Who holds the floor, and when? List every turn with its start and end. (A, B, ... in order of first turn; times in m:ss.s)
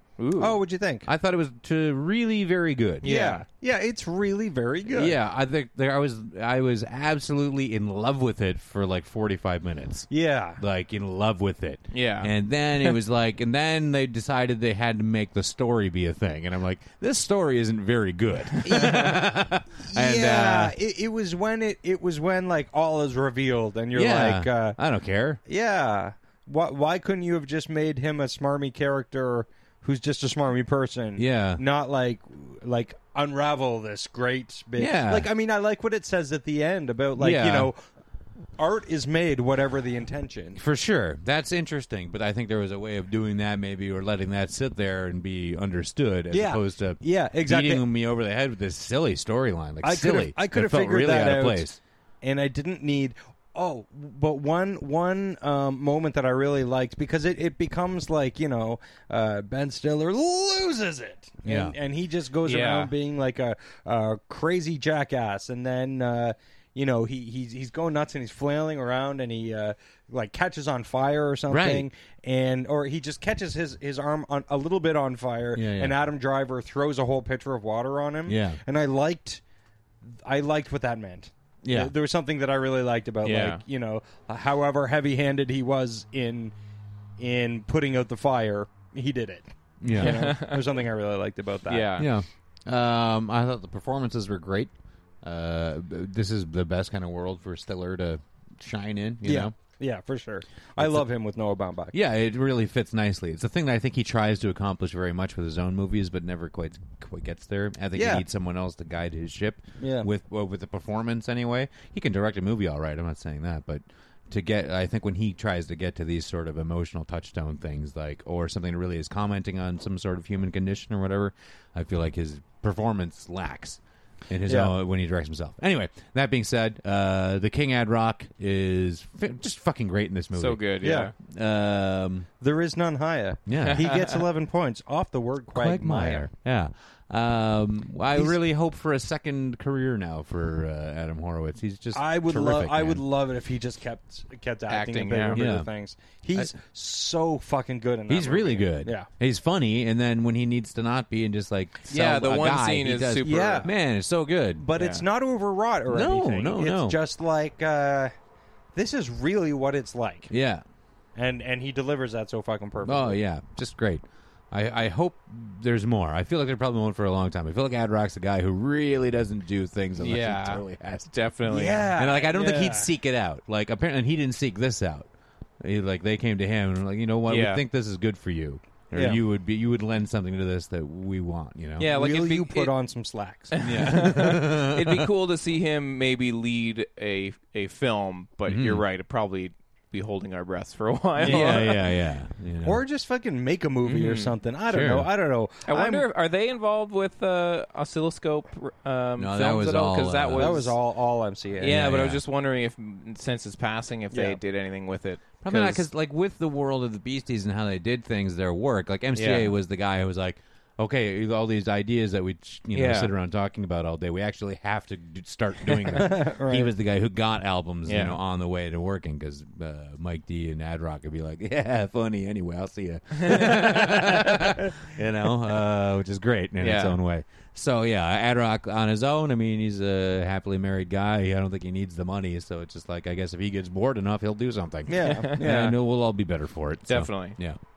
0:00.2-0:00.6 A
0:00.4-0:01.1 B
0:01.1-0:03.1 C
0:03.0-0:03.4 A
0:03.0-0:05.2 B
0:04.9-0:20.8 C
0:10.1-0:10.6 B
0:11.9-0:13.0 A
0:18.6-0:19.3 B
0:19.9-0:24.8 B
0:23.9-0:25.4 C
0:25.5-0:37.8 B
0:31.2-0:31.6 C
0:34.8-0:35.3 C
0:37.2-0:37.7 C
0:38.6-0:40.6 B
0:40.6-0:51.8 C
0:46.3-0:47.8 B
0:49.8-0:51.7 B
0:52.2-1:19.4 B
1:01.4-1:01.8 C
1:02.4-1:02.9 A
1:11.5-1:11.9 C
1:15.5-1:16.0 C
1:18.3-1:18.6 C
1:20.0-1:26.5 B
1:21.6-1:21.9 C
1:23.2-1:23.6 A
1:27.2-1:32.0 B
1:29.8-1:30.3 C
1:30.0-1:30.8 A
1:31.7-1:32.1 A
1:32.0-1:39.5 C
1:39.2-1:42.0 B
1:40.8-1:41.0 C
1:41.9-2:10.6 C
1:48.0-1:48.2 B
1:49.8-1:50.1 B
2:04.5-2:04.7 B
2:10.4-2:11.1 A
2:10.8-2:11.1 B
2:11.2-2:12.3 C
2:12.4-2:16.3 B
2:13.5-2:13.9 C
2:13.7-2:14.2 A
2:15.5-2:23.0 C
2:18.1-2:18.4 B
2:21.9-2:29.1 B
2:24.7-2:25.4 A
2:25.3-2:25.7 C
2:28.1-2:34.7 C
2:31.9-2:33.7 A
2:33.2-2:33.7 B
2:34.6-2:38.1 B
2:34.8-2:35.0 A
2:35.9-2:37.0 C
2:38.8-2:40.3 B
2:40.3-2:40.6 C
2:41.2-2:43.2 B
2:42.8-2:51.2 C
2:50.0-2:51.9 A
2:51.5-2:52.9 B
2:51.9-2:55.1 C
2:55.6-3:01.9 C
2:57.3-2:57.6 A
2:58.9-2:59.2 B
3:01.8-3:02.7 A
3:01.8-3:03.6 B
3:03.5-3:11.8 A
3:03.6-3:05.1 C
3:08.5-3:08.8 C
3:11.2-3:11.8 B
3:11.2-3:12.8 C
3:12.6-3:16.1 B
3:13.8-3:14.4 A
3:14.7-3:15.1 C
3:15.7-3:20.8 A
3:19.2-3:20.6 C
3:20.4-3:21.7 B
3:21.6-3:25.9 A
3:21.6-3:22.2 C
3:24.1-3:24.4 B
3:25.4-3:57.6 C
3:29.2-3:29.5 A
3:32.7-3:33.1 A
3:35.9-3:36.7 B
3:37.9-3:38.2 A
3:46.6-3:47.0 A
3:54.9-3:55.8 B
3:55.0-3:55.4 A
3:56.9-3:57.4 A